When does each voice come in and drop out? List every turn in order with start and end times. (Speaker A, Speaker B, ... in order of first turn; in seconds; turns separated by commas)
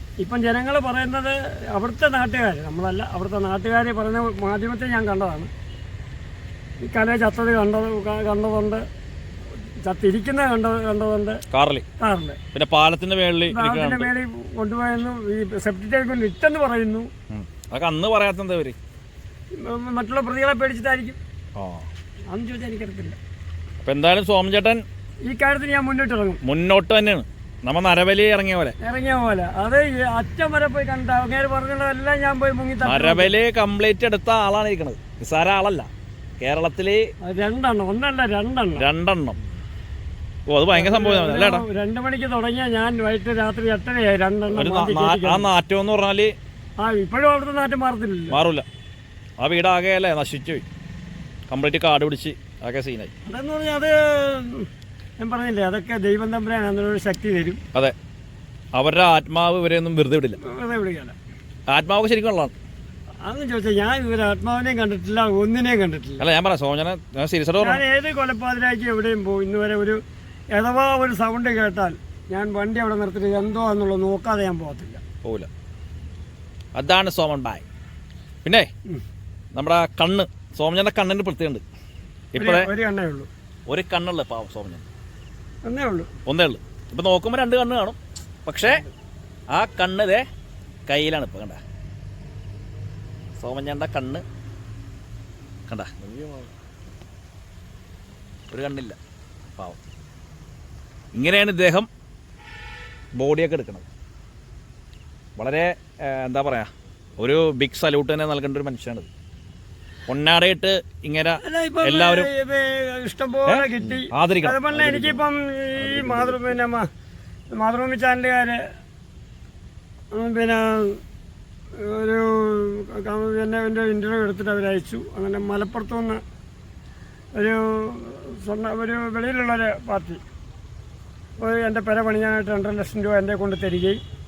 Speaker A: 0.2-5.5, Speaker A: 6.8-8.8, Speaker A: 9.8-11.4, Speaker B: 11.5-11.8, Speaker A: 12.0-12.4, Speaker B: 12.5-14.1, Speaker A: 13.5-17.1, Speaker B: 17.3-18.8, Speaker A: 19.5-21.2, Speaker B: 21.6-21.9, Speaker A: 22.3-23.2, Speaker B: 23.8-24.8, Speaker A: 25.3-26.4, Speaker B: 26.4-28.7, Speaker A: 28.8-33.3, Speaker B: 32.8-35.9, Speaker B: 36.4-37.1, Speaker A: 37.2-38.9, Speaker B: 38.8-39.4, Speaker B: 40.5-41.6, Speaker A: 40.7-45.5, Speaker B: 44.5-46.3, Speaker A: 46.8-48.4, Speaker B: 48.3-48.6, Speaker B: 49.4-50.6, Speaker B: 51.5-53.1, Speaker A: 53.3-54.7, Speaker A: 55.2-57.6, Speaker B: 58.7-60.4, Speaker A: 60.4-61.1, Speaker B: 61.7-62.5, Speaker A: 63.2-66.2, Speaker B: 66.2-67.8, Speaker A: 67.6-70.0, Speaker A: 70.5-75.0, Speaker B: 75.2-75.5, Speaker B: 76.7-77.6, Speaker B: 78.4-78.7, Speaker B: 79.5-81.6, Speaker B: 82.3-82.7, Speaker A: 82.4-83.3, Speaker B: 83.7-84.8, Speaker A: 85.6-86.1, Speaker B: 86.2-88.8, Speaker A: 88.6-88.9, Speaker B: 89.5-90.2, Speaker B: 90.9-91.6, Speaker B: 93.4-94.2, Speaker B: 95.7-95.9, Speaker B: 98.5-99.0, Speaker B: 101.1-101.9, Speaker B: 103.1-103.8, Speaker B: 105.3-109.1, Speaker B: 110.1-112.3, Speaker A: 111.4-116.9, Speaker B: 113.5-115.2, Speaker B: 115.9-116.3, Speaker A: 117.5-118.6, Speaker A: 120.1-121.0, Speaker A: 121.8-126.2, Speaker A: 127.3-130.2, Speaker A: 131.4-134.0